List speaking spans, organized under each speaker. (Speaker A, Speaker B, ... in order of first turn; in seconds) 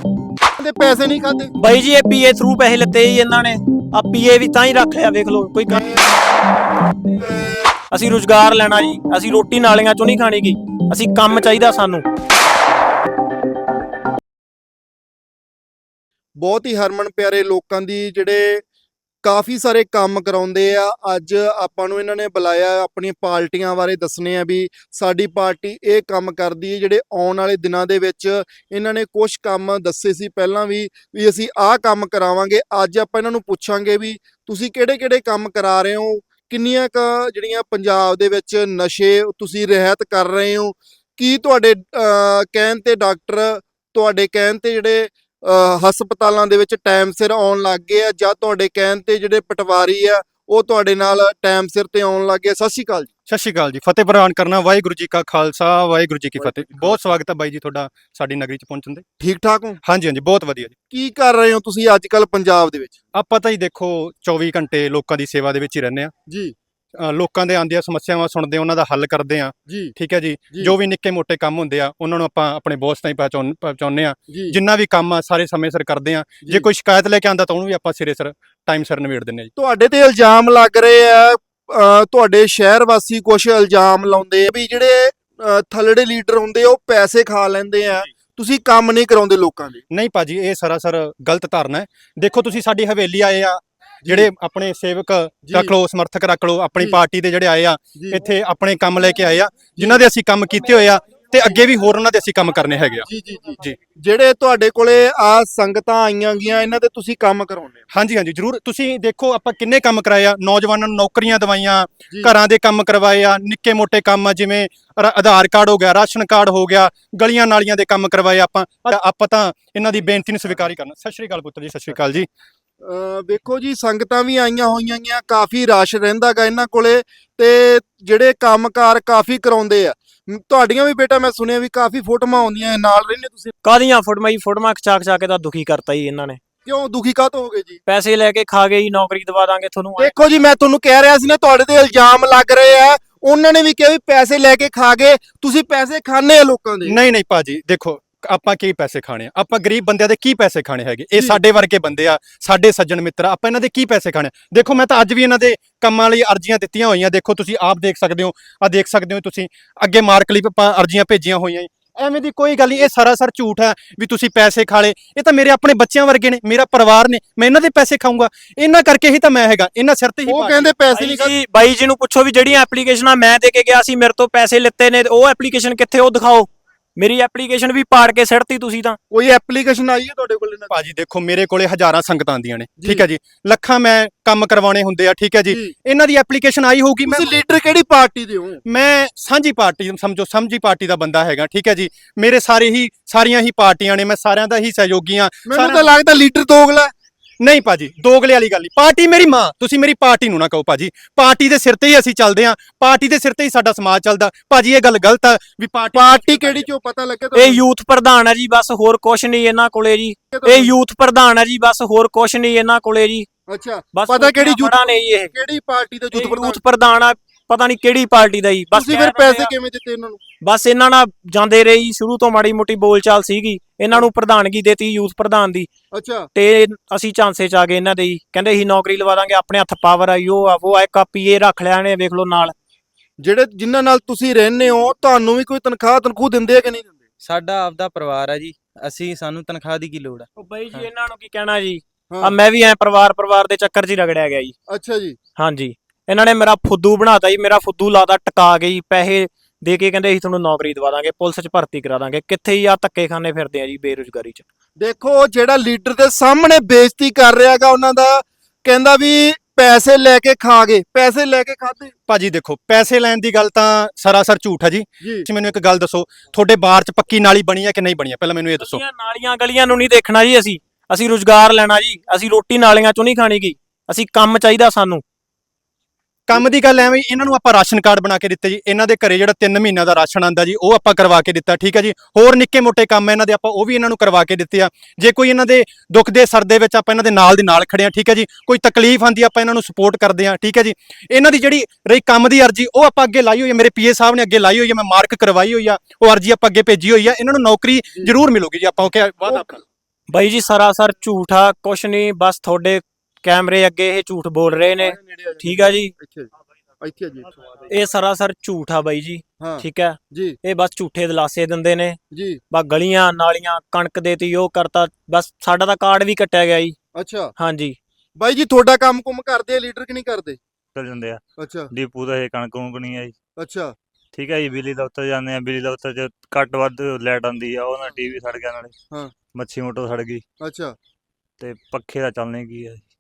Speaker A: 0.6-1.5, 5.7-6.0, 7.2-7.7, 16.4-18.6, 19.2-53.1, 56.4-57.1, 59.2-59.8, 60.9-63.0, 66.3-66.5, 69.7-69.9, 74.3-74.6, 79.6-89.8, 95.5-95.7, 98.0-98.2, 99.8-100.0, 103.1-107.8, 122.8-133.5, 136.6-137.8, 140.0-147.0, 151.1-151.4, 170.2-171.3, 179.1-180.8, 182.8-183.0, 187.0-188.6, 195.4-196.9, 205.9-207.6, 210.3-210.7, 213.5-216.6, 218.7-220.2, 225.9-226.3, 233.2-236.9, 242.1-242.3, 244.7-245.2, 254.8-261.9, 299.2-299.6, 304.7-306.3, 306.8-307.3, 309.4-310.4, 312.1-312.4, 317.0-317.3, 318.2-320.4, 321.4-321.7, 323.4-323.7, 330.4-330.7
Speaker B: 1.6-6.1, 7.9-12.1, 133.6-136.4, 137.9-140.1, 170.9-179.0, 207.3-213.3, 213.9-215.3, 216.1-219.5, 220.4-225.7, 226.3-232.5, 240.3-244.5, 245.4-254.4, 268.6-275.0, 300.1-305.9, 307.7-312.0, 312.5-316.8, 317.4-317.8
Speaker C: 53.3-59.0, 59.8-60.7, 63.1-66.1, 67.0-79.5, 89.9-103.1, 107.9-122.3, 146.8-170.7, 180.7-187.4, 188.7-195.9, 197.4-206.7, 262.1-268.8, 276.3-299.6
Speaker D: 237.2-240.9
Speaker E: 320.7-323.1, 324.1-328.7, 329.3-330.2, 331.4-332.9